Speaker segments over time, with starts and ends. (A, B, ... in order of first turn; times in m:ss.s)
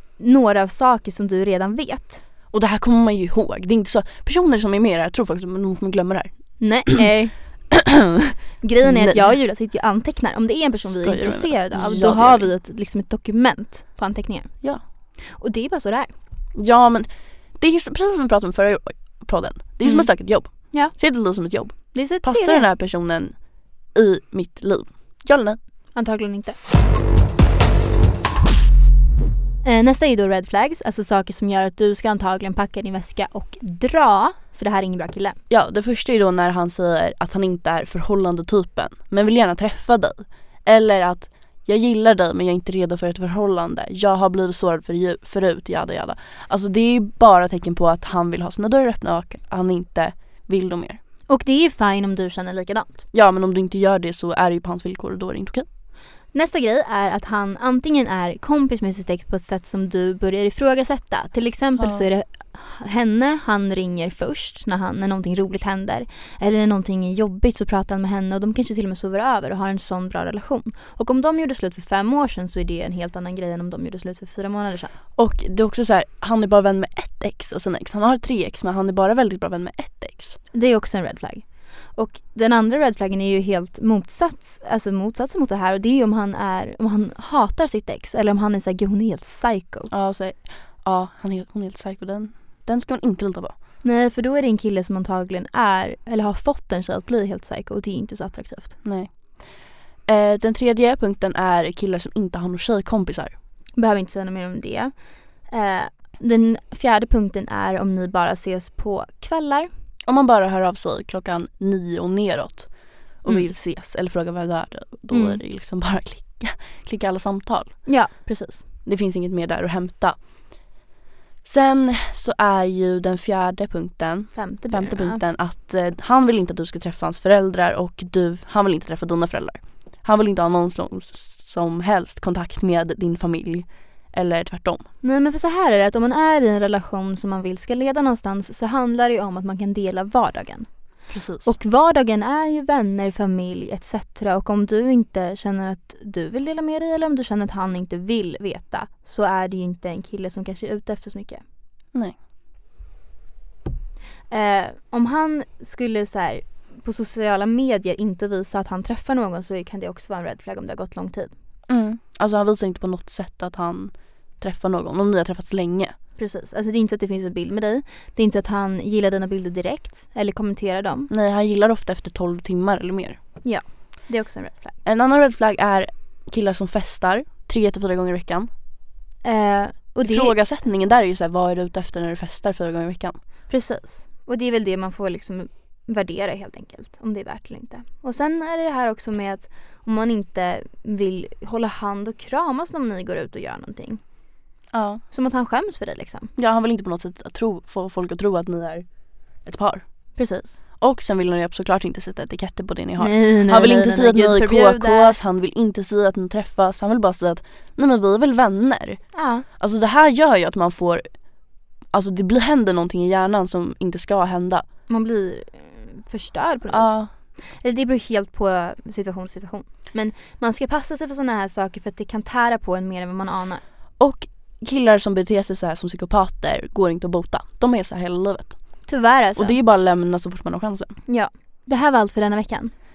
0:00.2-0:02.2 A
0:02.5-0:07.0 B
0:06.6-0:07.7 A
0:08.6-0:16.1 A
0:08.8-0:09.3 B
0:10.8-0:12.5 B
0:16.5-0:25.6 B
0:19.8-0:20.9 A
0:21.9-0:22.7 A
0:25.9-0:26.6 A
0:29.6-0:35.4 A
0:35.5-0:51.0 B
0:51.3-0:53.0 A
0:53.1-0:55.6 B
0:56.3-1:14.9 A
1:01.8-1:02.0 B
1:15.2-1:20.4 B
1:20.5-1:29.9 A
1:29.9-1:33.6 B
1:33.8-1:38.8 A
1:38.8-1:39.5 B
1:40.0-1:43.4 B
1:43.8-1:44.9 A
1:45.5-1:49.7 A
1:50.0-1:57.8 B
1:55.1-1:55.4 A
1:57.8-1:58.6 A
1:58.8-2:00.2 B
2:01.4-2:14.9 B
2:04.3-2:05.2 A
2:15.0-2:20.7 A
2:21.1-2:21.5 B
2:21.4-2:31.4 A
2:34.3-2:41.3 A
2:41.7-2:46.0 B
2:46.2-2:51.1 A
2:51.1-2:53.2 B
2:53.4-2:54.8 A
2:54.8-2:58.5 B
2:59.2-3:00.3 A
3:00.0-3:03.2 B
3:03.5-3:14.0 A
3:14.7-3:15.0 B
3:15.1-3:16.3 A
3:16.4-3:18.9 B
3:19.4-3:20.2 B
3:20.1-3:20.6 A
3:20.8-3:29.0 B
3:23.0-3:25.1 A
3:29.1-3:29.4 A
3:29.5-3:31.2 B
3:31.9-3:34.6 B
3:34.9-3:43.6 A
3:36.7-3:37.1 B
3:44.0-3:48.6 B
3:48.9-3:49.6 A
3:49.4-3:51.0 B
3:51.1-3:52.7 A